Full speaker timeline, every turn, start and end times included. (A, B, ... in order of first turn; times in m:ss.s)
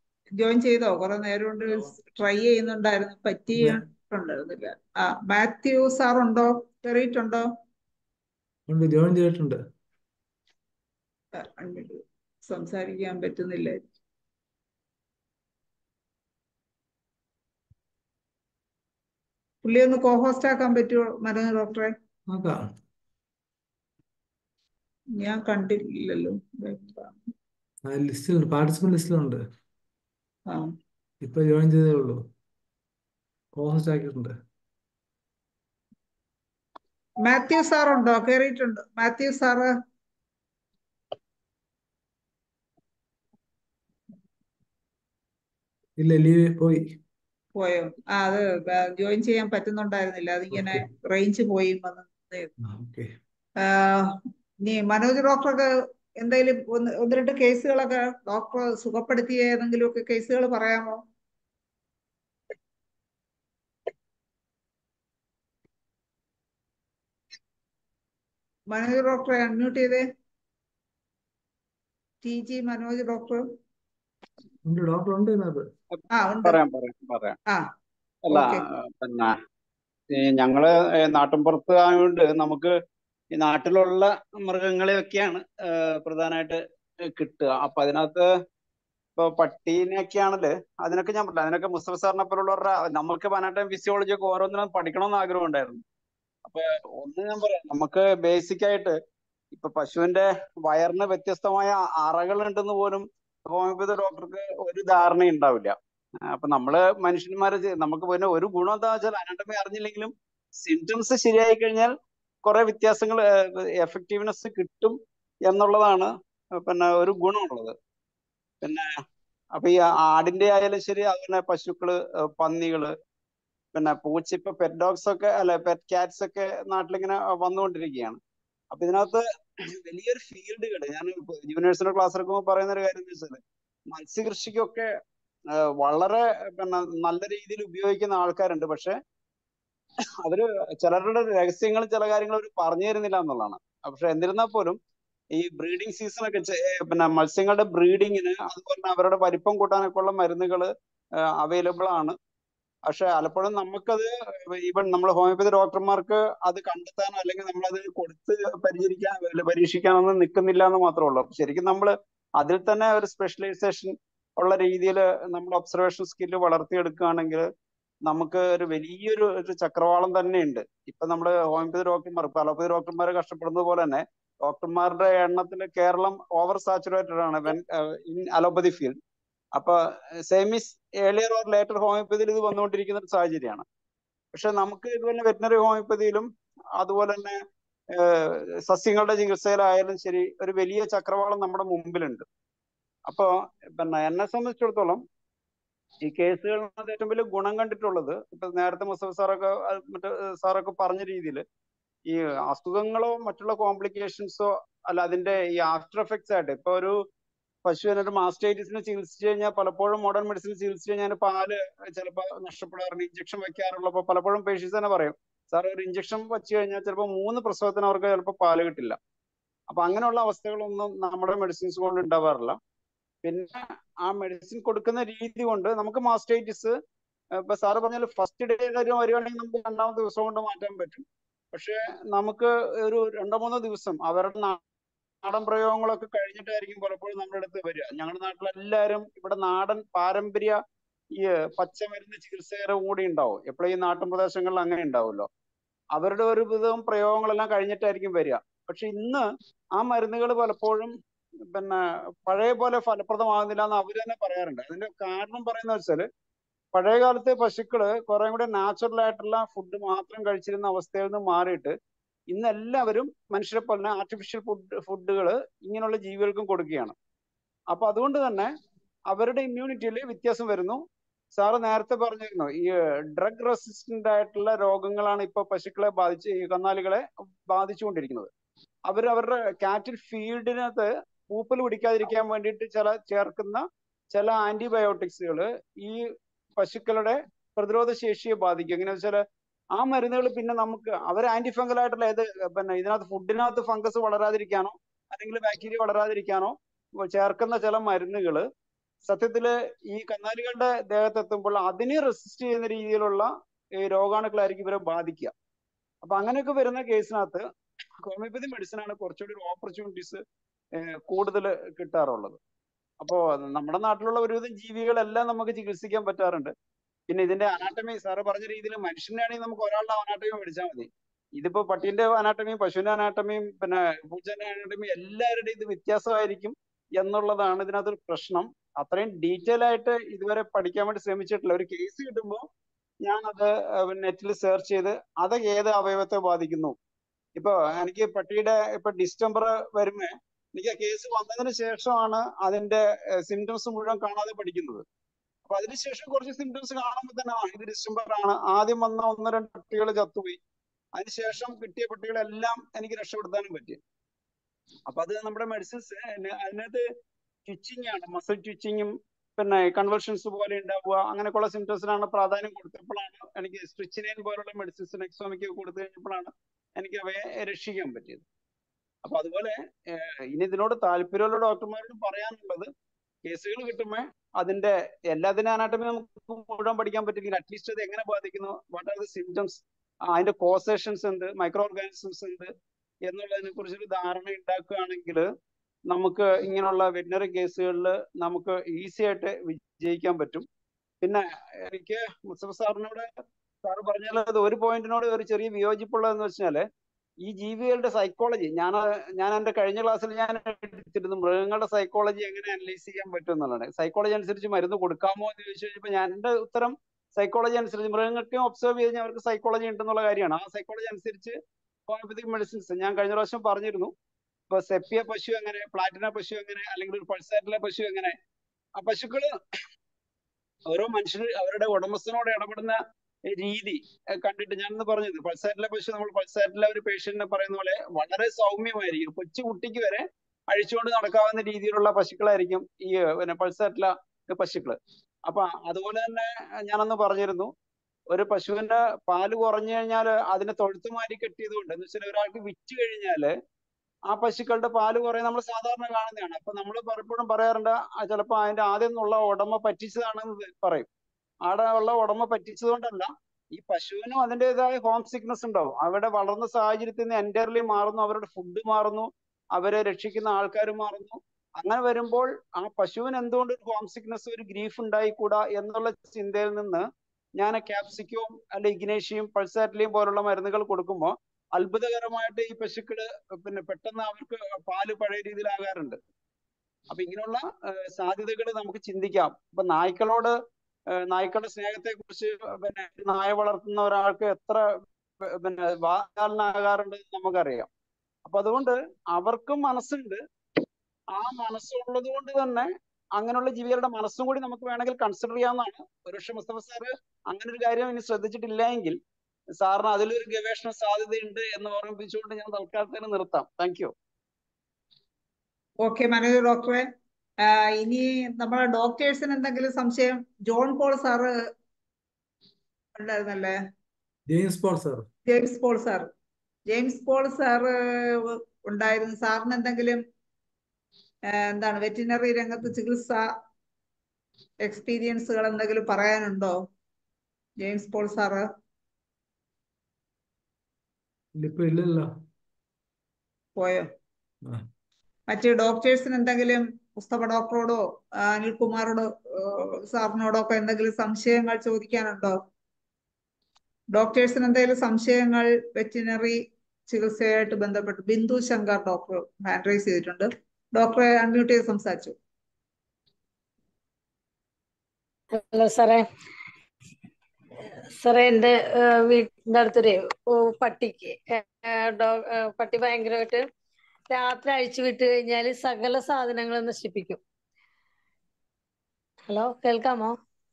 0:00.4-0:07.5 A
0:08.7-0:09.6 B
0:11.4-0:13.8 A
0:19.6-0:21.9 A
0:22.3-0:22.7 B
0:25.2-0:27.1 A
0:27.9-0:29.4 B
0:31.2-0:32.2 B
0:33.6-0:34.3 B
0:37.2-0:39.7 A
0:46.0-0:46.9 B
0:47.6-0:52.5 A
0:50.5-0:50.8 B
0:52.6-0:53.1 B
0:53.6-0:55.7 A
0:56.2-1:01.0 A
1:08.7-1:10.0 A
1:12.2-1:13.4 A
1:14.6-1:15.7 B
1:16.1-1:16.6 A
1:16.4-1:17.4 C
1:18.3-1:18.6 A
1:18.3-1:19.4 C
1:20.1-1:22.7 C
1:23.4-1:26.6 C
1:27.1-1:28.3 C
1:29.2-1:35.8 C
1:36.4-1:39.0 C
1:39.5-1:45.8 C
1:46.3-1:51.9 C
1:52.4-1:57.8 C
1:58.6-1:58.9 C
1:59.6-2:02.9 C
2:03.8-2:08.2 C
2:08.7-2:09.2 C
2:09.8-2:13.4 C
2:13.9-2:14.9 C
2:15.8-2:19.0 C
2:20.2-2:24.8 C
2:25.4-2:30.7 C
2:31.4-2:32.2 C
2:32.9-2:47.5 C
2:48.1-2:59.0 C
2:59.6-3:03.6 C
3:04.3-3:06.3 C
3:06.8-3:07.4 C
3:08.0-3:12.2 C
3:13.1-3:15.0 C
3:16.0-3:21.4 C
3:22.1-3:27.0 C
3:27.6-3:39.0 C
3:39.7-3:42.6 C
3:43.2-3:46.8 C
3:47.4-3:54.6 C
3:55.2-4:00.6 C
4:01.2-4:05.3 C
4:06.0-4:09.2 C
4:09.8-4:10.9 C
4:11.5-4:16.1 C
4:16.7-4:21.8 C
4:22.3-4:27.0 C
4:27.7-4:28.5 C
4:29.1-4:30.8 C
4:31.3-4:38.3 C
4:38.9-4:46.0 C
4:46.6-4:49.2 C
4:49.8-4:58.4 C
4:59.0-5:05.3 C
5:06.0-5:07.4 C
5:08.0-5:10.2 C
5:10.8-5:12.4 C
5:13.0-5:16.5 C
5:17.1-5:32.4 C
5:33.0-5:36.8 C
5:37.4-5:44.8 C
5:45.5-5:50.4 C
5:51.0-5:53.8 C
5:54.9-5:56.8 C
5:57.5-6:08.2 C
6:09.0-6:12.7 C
6:13.2-6:22.5 C
6:23.1-6:25.2 C
6:25.9-6:30.5 C
6:31.0-6:33.1 C
6:33.6-6:36.6 C
6:37.2-6:53.9 C
6:54.5-6:58.2 C
6:58.8-6:59.3 C
7:00.7-7:02.8 C
7:03.3-7:17.5 C
7:18.1-7:23.3 C
7:24.1-7:30.9 C
7:31.4-7:46.8 C
7:47.4-7:56.0 C
7:56.9-8:00.4 C
8:01.1-8:04.6 C
8:05.3-8:07.7 C
8:08.2-8:10.2 C
8:11.1-8:19.0 C
8:19.6-8:23.9 C
8:25.8-8:26.9 A
8:27.4-8:31.3 A
8:33.0-8:33.6 A
8:34.3-8:35.0 B
8:35.3-8:36.1 A
8:36.7-8:40.0 A
8:41.3-8:43.2 A
8:44.6-8:46.6 A
8:47.6-8:48.4 A
8:51.4-8:52.1 B
8:53.6-8:53.9 A
8:55.3-9:02.4 A
9:03.9-9:06.4 A
9:06.9-9:12.2 A
9:15.3-9:16.1 D
9:18.0-9:23.4 D
9:24.1-9:27.2 D
9:29.3-9:30.2 D